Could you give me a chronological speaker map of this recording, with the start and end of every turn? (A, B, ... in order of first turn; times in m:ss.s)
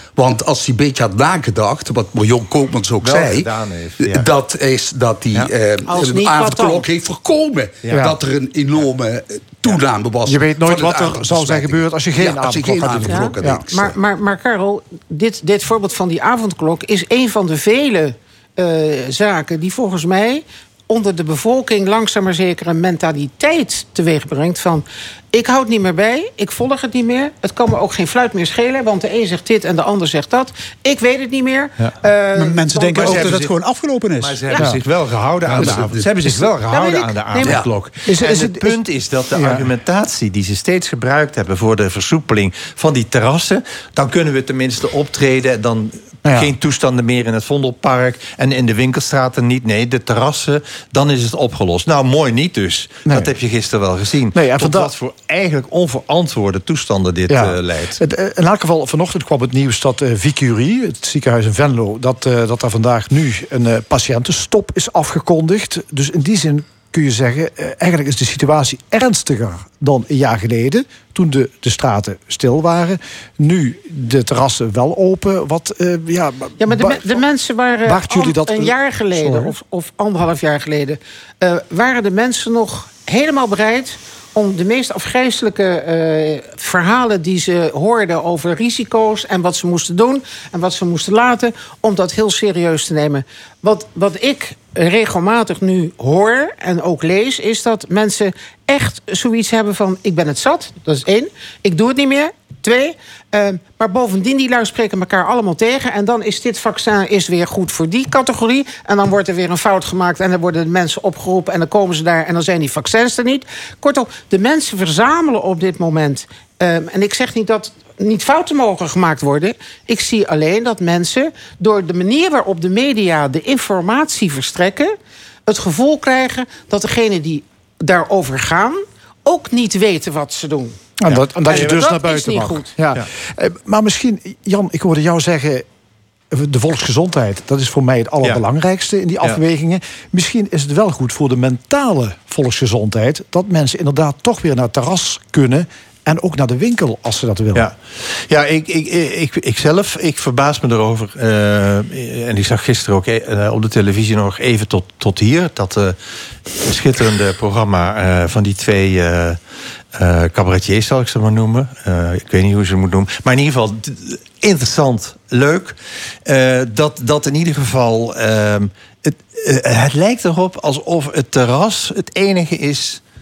0:00.2-0:03.5 A
0:03.0-0:04.2 B
0:04.0-0:13.9 A
0:05.9-0:06.8 C
0:07.8-0:08.1 B
0:07.9-0:08.2 D
0:10.2-0:13.6 D
0:13.0-0:33.3 C
0:32.3-0:34.8 E
0:32.9-0:33.6 B
0:34.2-0:58.0 B
0:35.5-0:36.0 A
0:36.7-0:37.6 C
0:38.0-0:38.8 D
0:39.3-0:39.7 D
0:46.2-0:46.5 D
0:53.1-0:53.3 D
0:54.3-0:54.9 D
0:57.3-1:17.2 D
1:16.6-2:04.9 C
1:17.8-1:19.5 D
2:05.4-2:10.8 C
2:11.0-2:15.6 D
2:11.4-2:12.8 C
2:16.3-2:27.7 D
2:27.5-2:36.0 B
2:36.6-2:39.4 B
2:39.9-2:53.0 B